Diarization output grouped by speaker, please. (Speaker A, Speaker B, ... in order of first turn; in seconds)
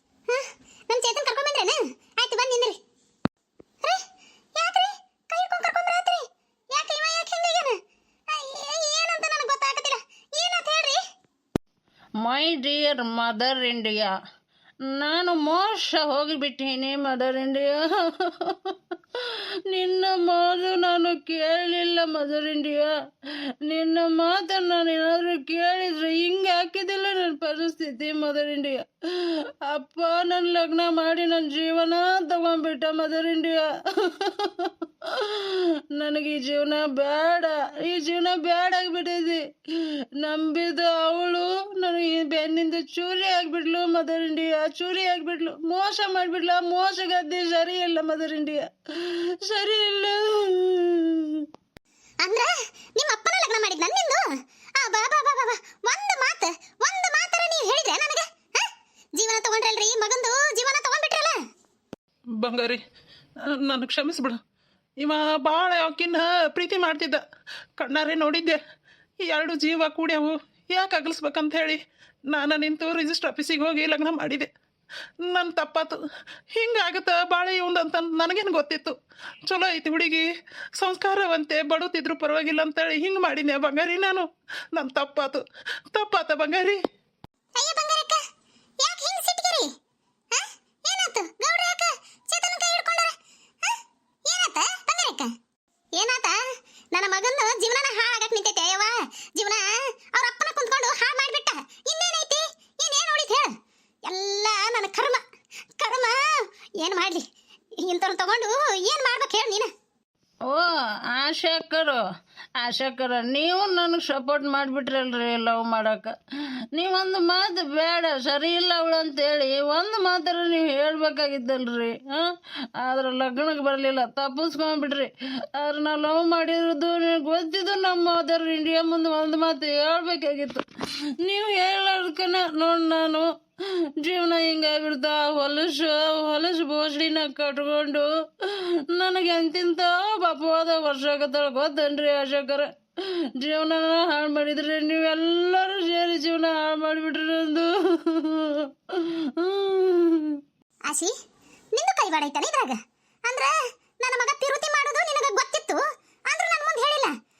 Speaker A: 0.3-2.8, 4.5-7.7, 8.3-11.0, 52.2-54.2, 54.8-61.4, 87.6-88.2, 88.8-89.7, 90.3-95.3, 96.0-96.4, 96.9-103.5, 104.1-105.2, 105.8-106.2, 106.8-107.2, 107.8-109.7, 151.7-157.1
Speaker B: 12.2-14.1, 14.9-22.9, 23.6-51.5, 110.5-112.0, 112.6-116.1, 116.7-130.6, 131.2-133.3, 134.0-142.7, 143.4-150.4
Speaker C: 62.4-62.8, 63.5-64.4, 65.0-67.2, 67.8-68.6, 69.2-74.5, 75.3-76.0, 76.5-78.9, 79.5-80.2, 80.8-86.8